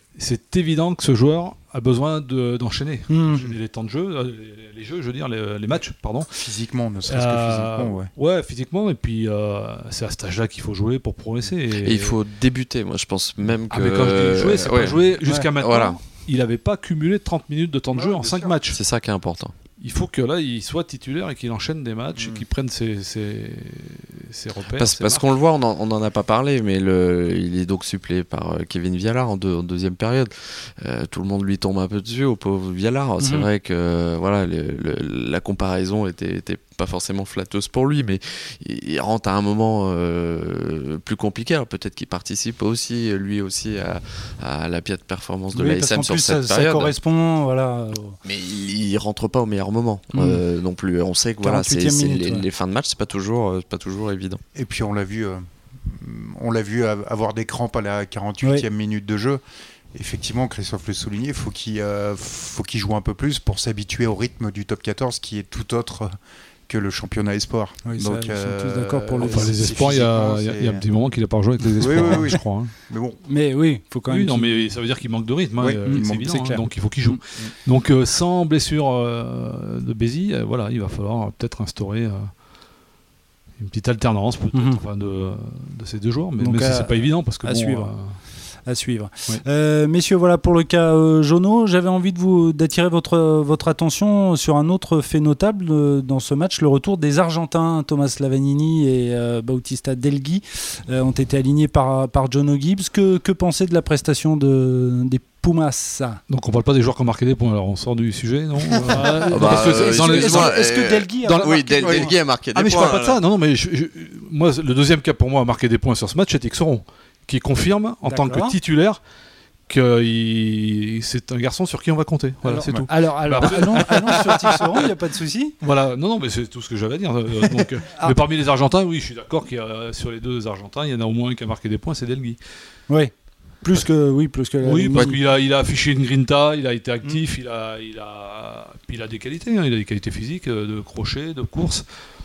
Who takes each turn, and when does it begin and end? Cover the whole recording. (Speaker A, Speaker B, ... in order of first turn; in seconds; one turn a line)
Speaker A: 0.1-6.5
Speaker B: 3.1-3.4
Speaker C: 6.4-8.1
Speaker A: 7.1-12.2
Speaker D: 11.7-16.0
Speaker A: 13.7-18.8
Speaker B: 15.2-15.5
Speaker C: 17.9-18.5
Speaker D: 18.7-19.5
Speaker A: 19.8-25.3
Speaker D: 24.8-46.9
Speaker B: 33.2-33.5
Speaker B: 45.5-48.2
Speaker D: 48.2-54.4
Speaker B: 50.1-50.4
Speaker B: 51.4-52.4
Speaker C: 54.5-59.4
Speaker C: 59.9-66.1
Speaker C: 66.7-70.8
Speaker B: 67.8-69.5
Speaker A: 69.2-72.7
Speaker C: 71.8-73.2
Speaker B: 71.9-72.3
Speaker B: 73.2-74.7
Speaker A: 74.1-82.3
Speaker C: 75.6-76.3
Speaker B: 75.8-77.2
Speaker A: 83.6-88.2
Speaker B: 84.5-84.8
Speaker B: 86.4-87.9
Speaker B: 88.7-106.2
Speaker A: 106.3-110.7
Speaker B: 108.8-112.1
Speaker D: 108.8-113.2
Speaker A: 111.2-119.0
Speaker C: 112.7-113.1
Speaker B: 118.0-118.5
Speaker A: 119.7-124.6
Speaker B: 122.4-125.5
Speaker A: 125.6-132.4
Speaker B: 132.9-135.2
Speaker A: 134.6-141.8